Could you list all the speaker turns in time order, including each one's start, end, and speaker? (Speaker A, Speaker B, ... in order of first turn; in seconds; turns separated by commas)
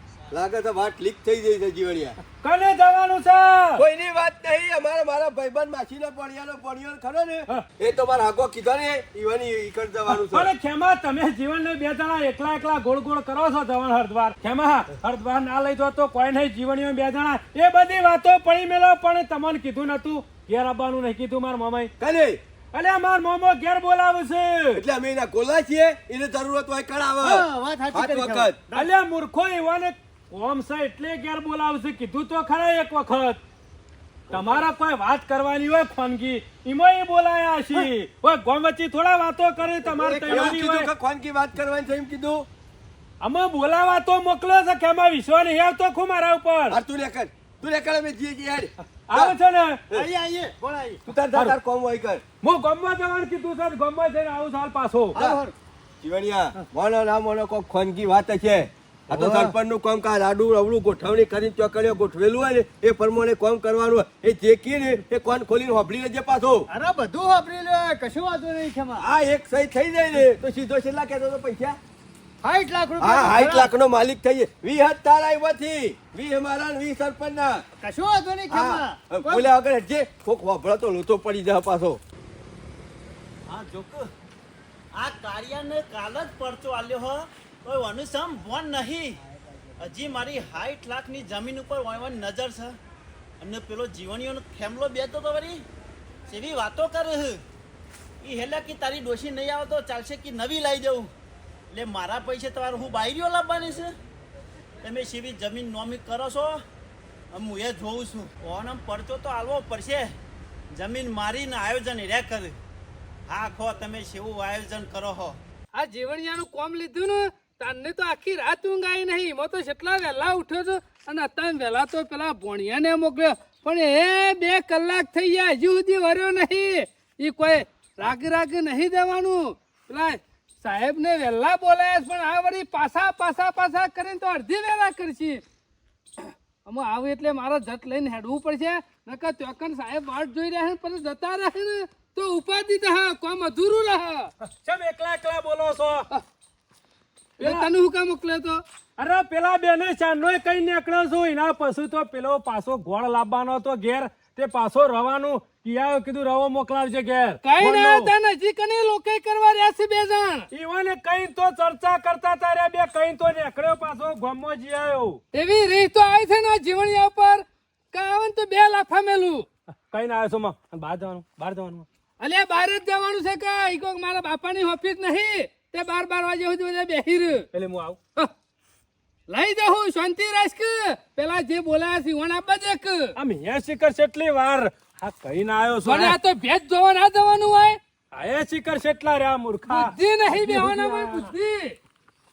Speaker A: 0.3-2.2, Speaker B: 2.4-3.8, Speaker A: 3.8-10.5, Speaker B: 10.1-21.9, Speaker A: 22.0-22.4, Speaker B: 22.7-24.8, Speaker A: 24.8-28.6, Speaker C: 27.2-28.9, Speaker B: 28.7-33.4, Speaker B: 34.3-40.9, Speaker C: 39.8-40.6, Speaker A: 40.3-42.5, Speaker B: 43.2-46.8, Speaker A: 46.7-49.4, Speaker B: 49.1-49.8, Speaker C: 49.9-51.0, Speaker A: 51.1-52.2, Speaker B: 52.4-55.2, Speaker A: 55.1-55.4, Speaker C: 55.1-55.5, Speaker A: 56.0-66.7, Speaker C: 59.1-59.5, Speaker C: 66.7-69.1, Speaker A: 69.0-71.8, Speaker C: 72.4-73.7, Speaker A: 73.0-77.6, Speaker C: 77.8-79.5, Speaker A: 78.5-82.0, Speaker D: 83.5-84.1, Speaker D: 84.9-89.2, Speaker D: 89.8-92.8, Speaker D: 93.4-95.7, Speaker D: 96.3-97.4, Speaker D: 98.2-101.1, Speaker D: 101.7-103.9, Speaker D: 104.8-106.6, Speaker D: 107.3-110.2, Speaker D: 110.7-112.6, Speaker D: 113.3-115.4, Speaker E: 115.8-135.4, Speaker E: 136.2-144.3, Speaker B: 144.4-146.1, Speaker E: 147.4-148.6, Speaker B: 147.4-147.7, Speaker B: 149.0-158.1, Speaker E: 157.4-160.5, Speaker B: 160.5-165.2, Speaker E: 165.3-169.5, Speaker B: 169.9-171.9, Speaker E: 172.2-177.5, Speaker B: 177.5-178.0, Speaker E: 179.3-183.2, Speaker B: 183.2-186.2, Speaker E: 185.8-187.8, Speaker B: 188.1-191.3, Speaker E: 189.7-191.8